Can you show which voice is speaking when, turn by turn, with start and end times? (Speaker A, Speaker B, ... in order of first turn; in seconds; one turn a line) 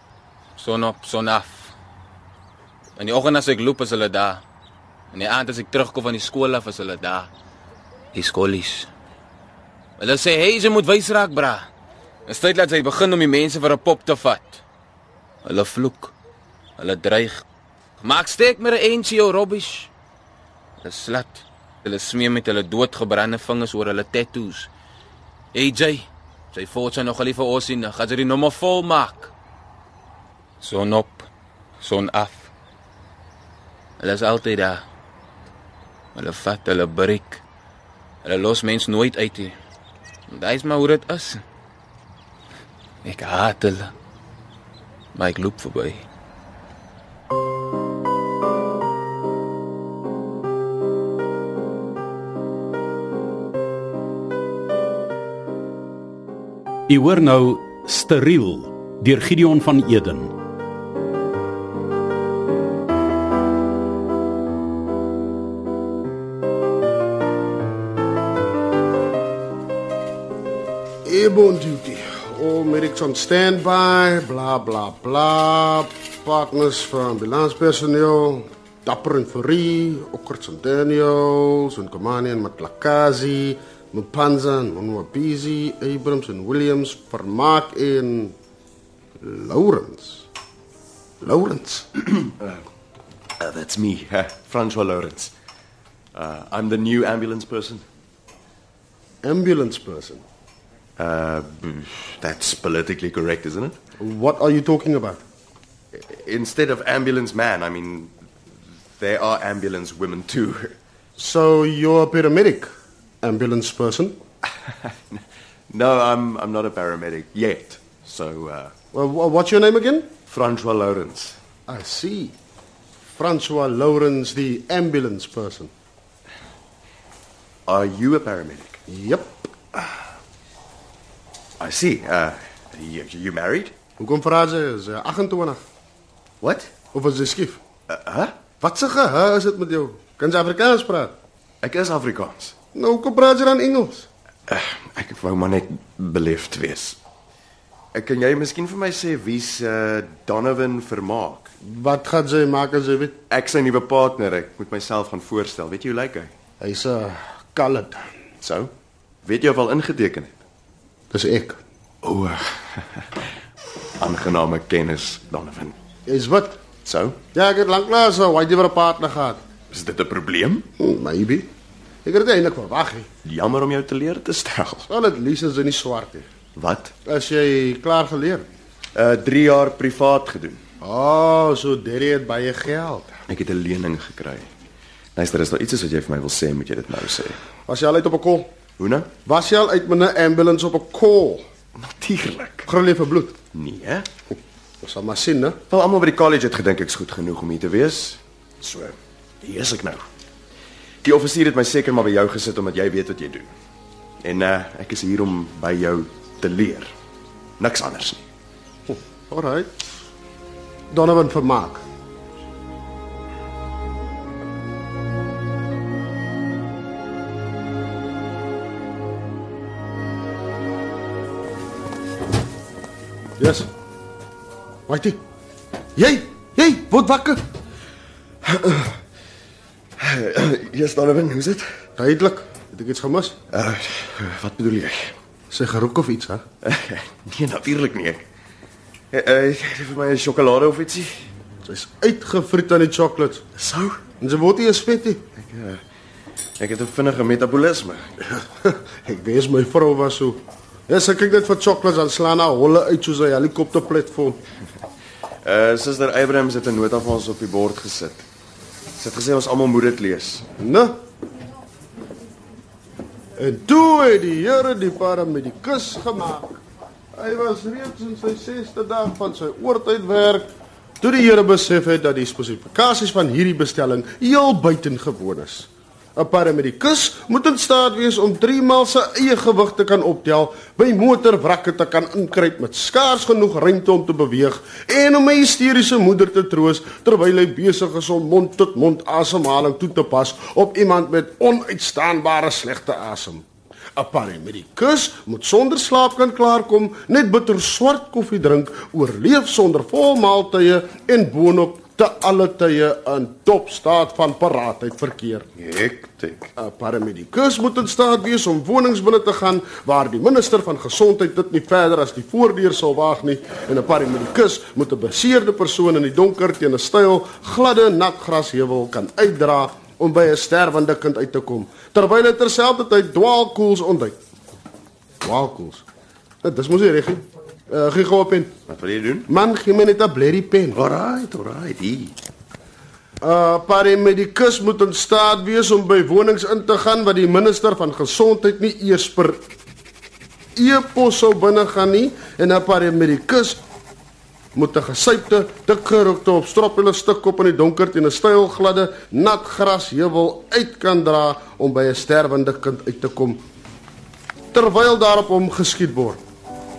Speaker A: 0.6-1.7
Speaker A: 3.0-4.4
Speaker A: 5.1-7.3
Speaker A: 8.1-8.9
Speaker A: 10.0-11.7
Speaker A: 12.3-14.6
Speaker A: 15.4-16.1
Speaker A: 16.8-17.4
Speaker A: 18.0-19.9
Speaker A: 20.8-24.7
Speaker A: 25.5-29.3
Speaker A: 30.6-31.3
Speaker A: 31.8-32.5
Speaker A: 34.0-34.8
Speaker A: 36.1-37.4
Speaker A: 38.2-39.6
Speaker A: 40.3-41.4
Speaker A: 43.0-43.9
Speaker A: 45.1-46.1
Speaker B: 56.9-60.3
Speaker C: 71.0-88.4
Speaker C: 89.2-90.3
Speaker C: 91.2-92.0
Speaker D: 92.2-92.6
Speaker D: 93.4-95.3
Speaker D: 96.1-97.8
Speaker C: 99.2-100.2
Speaker D: 101.0-103.8
Speaker C: 104.0-105.2
Speaker D: 105.9-108.1
Speaker D: 109.0-110.8
Speaker C: 111.2-112.7
Speaker C: 113.2-114.2
Speaker D: 114.4-118.7
Speaker C: 118.9-120.1
Speaker D: 120.3-121.4
Speaker C: 121.7-122.4
Speaker C: 123.2-125.7
Speaker D: 127.7-128.8
Speaker C: 128.9-129.4
Speaker D: 131.6-133.7
Speaker C: 134.0-135.6
Speaker D: 136.4-136.7
Speaker C: 136.9-137.6
Speaker D: 137.9-138.4
Speaker C: 138.6-141.2
Speaker D: 141.6-142.6
Speaker C: 142.8-144.1
Speaker D: 144.5-147.0
Speaker D: 147.9-151.5
Speaker C: 151.6-153.2
Speaker D: 153.3-156.3
Speaker C: 156.6-158.1
Speaker D: 158.4-158.7
Speaker D: 159.2-160.3
Speaker C: 161.1-161.6
Speaker D: 162.0-163.2
Speaker D: 164.0-165.8
Speaker C: 166.1-166.6
Speaker D: 166.8-167.2
Speaker C: 167.3-169.4
Speaker D: 169.7-170.7
Speaker C: 170.8-171.5
Speaker C: 172.1-173.1
Speaker D: 173.2-174.9
Speaker C: 174.9-176.3
Speaker D: 176.6-176.9
Speaker C: 177.1-178.5
Speaker D: 178.9-180.6
Speaker C: 180.8-183.2
Speaker D: 183.3-184.5
Speaker D: 185.2-187.4
Speaker C: 187.7-188.5
Speaker D: 188.8-189.1
Speaker C: 189.2-191.4
Speaker D: 191.8-192.7
Speaker C: 192.7-193.4
Speaker D: 193.5-194.1
Speaker C: 194.8-195.6
Speaker D: 195.7-200.0
Speaker D: 201.0-203.5
Speaker D: 204.2-206.9
Speaker D: 207.6-208.2
Speaker C: 208.9-209.7
Speaker C: 210.9-211.8
Speaker C: 223.4-223.7
Speaker C: 224.9-225.2
Speaker C: 226.0-227.4
Speaker D: 228.5-228.9
Speaker D: 230.0-231.7
Speaker C: 232.0-233.4
Speaker D: 233.5-235.2
Speaker C: 235.5-236.4
Speaker D: 236.6-238.2
Speaker D: 239.1-241.2
Speaker C: 241.7-243.4
Speaker D: 243.6-244.0
Speaker C: 244.2-245.2
Speaker D: 245.3-245.8
Speaker D: 246.6-248.1
Speaker C: 248.3-254.4
Speaker D: 255.4-258.3
Speaker D: 258.9-260.5
Speaker C: 260.6-260.9
Speaker C: 263.4-266.6
Speaker C: 267.1-270.5
Speaker C: 271.0-293.4
Speaker C: 294.0-305.5
Speaker D: 305.6-306.5
Speaker C: 306.6-324.2
Speaker C: 325.2-325.8
Speaker C: 326.4-328.5
Speaker D: 328.7-329.3
Speaker C: 329.3-330.8
Speaker D: 330.7-332.2
Speaker C: 333.2-339.4
Speaker C: 340.6-343.6
Speaker C: 344.5-353.4
Speaker C: 354.5-356.2